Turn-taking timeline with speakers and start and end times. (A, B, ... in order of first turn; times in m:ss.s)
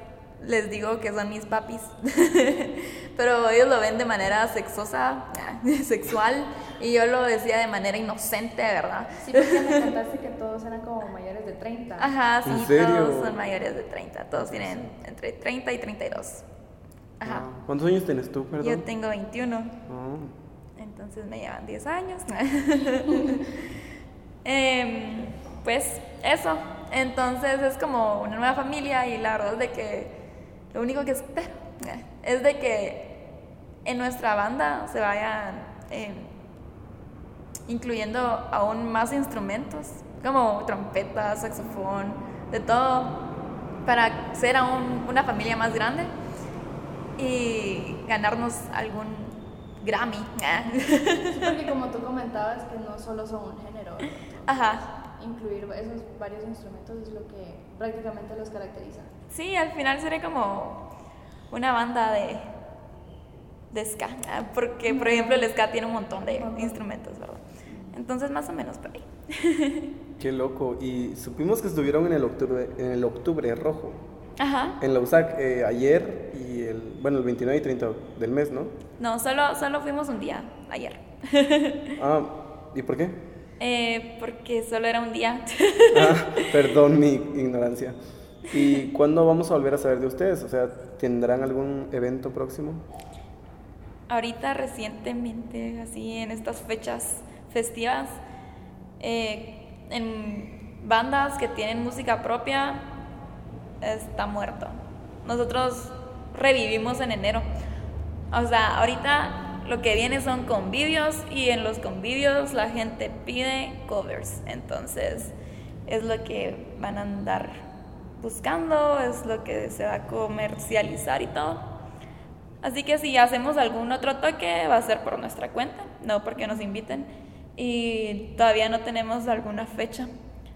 0:00.4-0:09.9 A
0:09.2-0:12.1 B
0:12.0-0:16.4 A
0:12.4-0:13.4 C
0:14.4-0:14.9 C
0:17.2-0:17.5 A
0:17.2-0:18.8 C
0:18.6-0:19.8 A
0:19.9-0:20.3 C
0:20.8-0:23.5 A
0:24.4-0:36.3 A
0:37.7-0:46.1 A
0:47.2-0:51.5 A
0:51.2-0:59.1 B
0:54.4-0:54.9 A
0:59.3-1:00.9 A
1:01.5-1:02.5 A
1:03.7-1:10.0 A
1:04.9-1:05.5 B
1:06.2-1:06.8 B
1:10.2-1:14.0 C
1:14.4-1:14.8 A
1:14.8-1:18.7 C
1:19.0-1:22.0 A
1:22.0-1:23.2 C
1:23.6-1:26.5 A
1:25.9-1:28.0 C
1:28.5-1:32.8 C
1:34.1-1:38.2 A
1:39.0-1:43.0 A
1:43.8-1:47.5 A
1:48.3-1:55.3 A
1:55.9-1:57.6 A
1:58.2-2:01.7 A
2:02.6-2:10.1 A